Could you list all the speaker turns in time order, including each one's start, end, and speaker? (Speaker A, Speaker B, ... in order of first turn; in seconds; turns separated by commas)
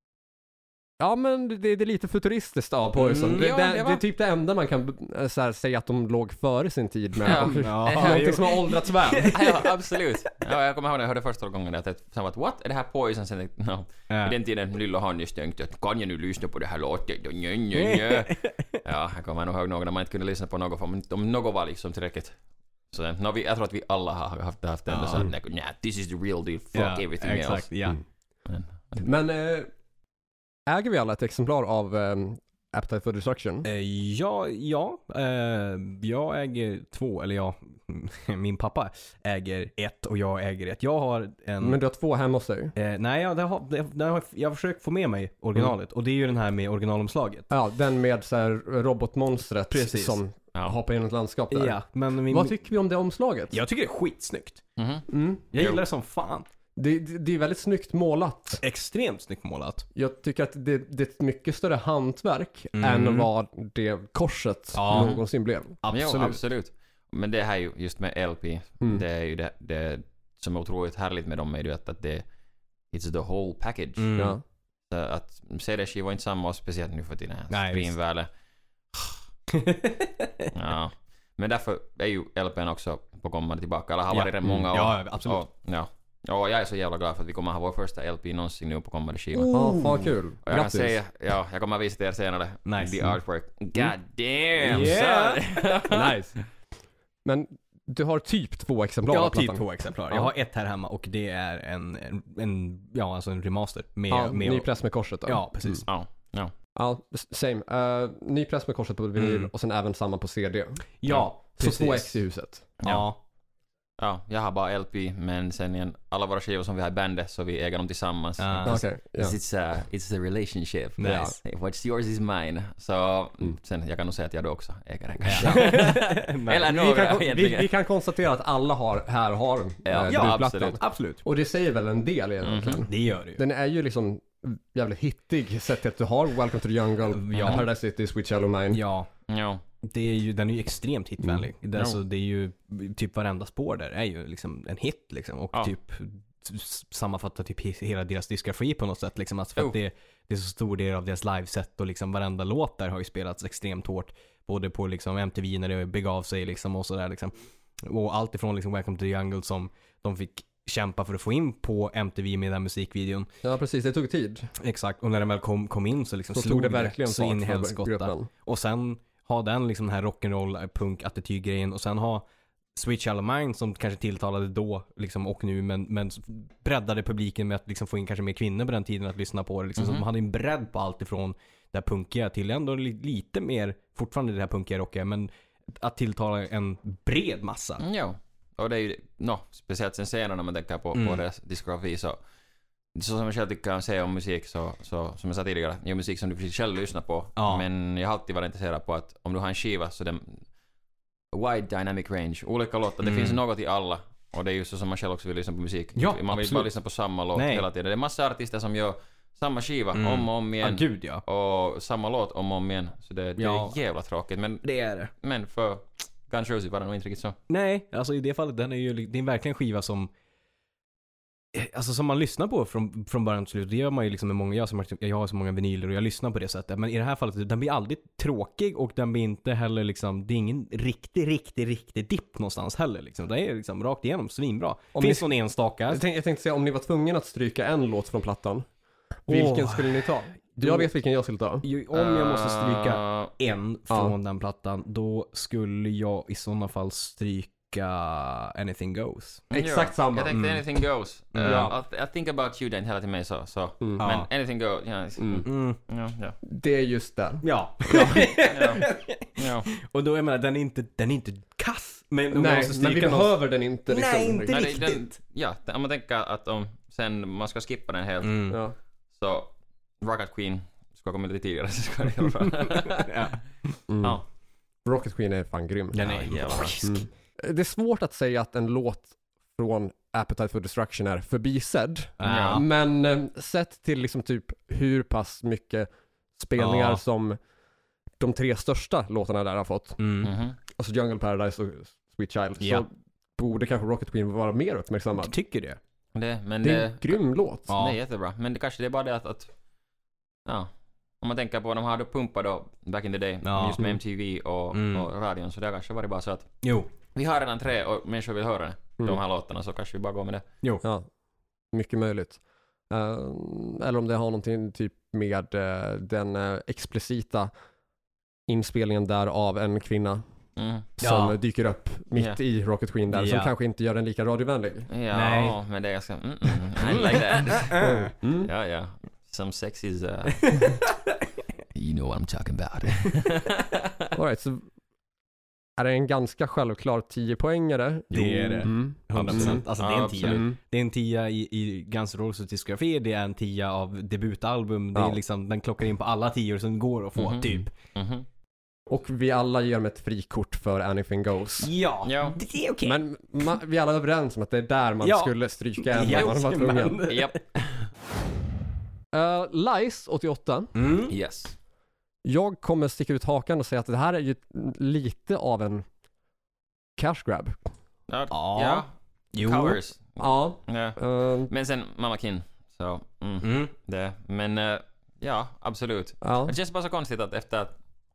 Speaker A: 1.0-9.4, Speaker B: 3.0-3.5, Speaker C: 3.2-4.0, Speaker C: 7.2-8.6, Speaker B: 7.2-9.7, Speaker C: 9.3-22.4, Speaker B: 14.1-14.4, Speaker B: 17.7-18.8, Speaker C: 22.9-27.7, Speaker B: 24.9-25.3, Speaker B: 26.7-28.0, Speaker C: 28.5-29.0, Speaker A: 29.0-29.7, Speaker A: 30.7-33.6, Speaker B: 33.6-41.8, Speaker A: 41.6-42.7, Speaker B: 42.8-47.5, Speaker A: 47.5-53.6, Speaker B: 49.7-50.2, Speaker B: 51.5-52.6, Speaker B: 53.5-54.6, Speaker C: 54.8-55.8, Speaker A: 55.1-55.4, Speaker B: 55.5-56.5, Speaker A: 56.8-58.6, Speaker B: 58.6-59.9, Speaker A: 59.9-65.8, Speaker B: 62.7-63.3, Speaker B: 64.8-65.2, Speaker C: 64.9-65.2, Speaker B: 65.8-66.4, Speaker C: 65.9-72.2, Speaker C: 72.9-74.1, Speaker B: 74.0-74.4, Speaker A: 74.2-74.4, Speaker C: 74.9-78.3, Speaker B: 77.5-77.9, Speaker C: 78.9-79.2, Speaker B: 79.5-80.5, Speaker C: 80.5-96.2, Speaker B: 84.1-85.4, Speaker A: 89.4-91.0, Speaker B: 89.5-89.9, Speaker B: 92.7-93.2, Speaker B: 94.6-95.4, Speaker A: 95.9-96.5, Speaker A: 97.2-100.3, Speaker B: 99.1-105.9, Speaker A: 104.1-105.8, Speaker C: 105.9-106.5, Speaker A: 106.7-112.7, Speaker B: 109.2-109.5, Speaker B: 111.0-112.2, Speaker C: 112.8-113.1, Speaker B: 112.8-113.2, Speaker C: 114.0-127.7, Speaker B: 118.4-118.8, Speaker A: 118.6-119.4, Speaker B: 121.0-121.3, Speaker A: 121.0-121.4, Speaker B: 125.2-126.7, Speaker A: 125.4-125.7, Speaker A: 126.7-138.8, Speaker C: 129.9-130.8, Speaker B: 130.1-131.2, Speaker C: 132.4-132.9, Speaker B: 132.9-133.4, Speaker B: 137.1-137.7, Speaker B: 138.7-139.1, Speaker C: 139.3-139.6, Speaker B: 139.8-163.3, Speaker A: 163.4-164.5, Speaker B: 164.6-187.8, Speaker A: 166.3-168.3, Speaker C: 179.8-180.1, Speaker C: 187.8-192.2, Speaker B: 190.9-191.2, Speaker C: 192.9-200.4, Speaker B: 197.4-197.6, Speaker C: 201.3-217.4, Speaker B: 203.0-203.4, Speaker B: 205.9-206.7, Speaker B: 207.3-207.6, Speaker B: 209.9-211.2, Speaker B: 213.4-213.7, Speaker B: 214.6-215.1, Speaker B: 217.5-220.1, Speaker B: 221.5-236.0, Speaker A: 234.9-235.3, Speaker A: 235.9-238.7, Speaker A: 239.2-241.6, Speaker B: 239.3-240.9, Speaker B: 241.6-249.4, Speaker C: 241.9-243.3, Speaker A: 249.5-250.4, Speaker C: 249.5-256.4, Speaker B: 250.3-250.6, Speaker B: 251.3-251.7, Speaker A: 251.4-251.7, Speaker B: 254.0-254.3, Speaker A: 255.2-255.4, Speaker B: 255.4-255.8, Speaker A: 256.4-258.3, Speaker B: 257.4-263.3, Speaker C: 258.5-259.7, Speaker A: 262.3-264.7, Speaker B: 263.9-265.2, Speaker C: 264.5-268.5, Speaker B: 268.2-268.6, Speaker A: 268.5-268.7, Speaker C: 269.1-273.1, Speaker B: 273.0-273.7, Speaker A: 273.9-274.2, Speaker A: 274.8-276.1, Speaker B: 275.9-277.1, Speaker C: 276.0-276.8, Speaker A: 276.8-287.4, Speaker B: 282.2-282.6, Speaker C: 282.2-282.6, Speaker B: 286.6-287.0, Speaker A: 288.2-290.0, Speaker B: 290.0-290.3, Speaker C: 290.2-290.6, Speaker A: 290.8-295.4, Speaker B: 292.6-292.9, Speaker B: 295.2-295.8, Speaker C: 296.1-297.2, Speaker A: 296.6-297.7, Speaker B: 297.7-298.0, Speaker C: 297.7-299.5, Speaker C: 301.2-306.5, Speaker B: 303.4-303.8, Speaker B: 304.7-305.1, Speaker B: 306.6-306.9, Speaker C: 307.1-310.4, Speaker A: 310.8-311.1, Speaker A: 311.7-317.5, Speaker A: 318.5-320.2, Speaker C: 320.6-320.9, Speaker A: 321.0-324.9, Speaker B: 321.0-321.4, Speaker B: 323.1-323.5, Speaker C: 324.9-327.8, Speaker B: 325.1-325.6, Speaker B: 326.8-328.1, Speaker A: 327.7-328.5, Speaker C: 328.4-330.8, Speaker B: 330.4-330.9, Speaker C: 331.7-334.1, Speaker A: 334.1-334.7, Speaker A: 335.8-339.6, Speaker B: 338.1-347.7, Speaker C: 339.2-340.4, Speaker A: 340.2-340.6, Speaker C: 347.1-348.2, Speaker A: 348.9-351.7, Speaker B: 351.6-353.0, Speaker C: 352.0-352.4, Speaker A: 352.8-357.0, Speaker B: 355.0-357.7, Speaker C: 357.1-357.4, Speaker A: 359.1-360.7, Speaker B: 360.7-361.1, Speaker C: 361.1-361.6, Speaker A: 362.2-365.9, Speaker A: 366.9-367.6, Speaker C: 368.1-377.7, Speaker B: 368.3-369.8, Speaker A: 370.2-371.5, Speaker B: 373.4-373.7, Speaker A: 376.2-376.6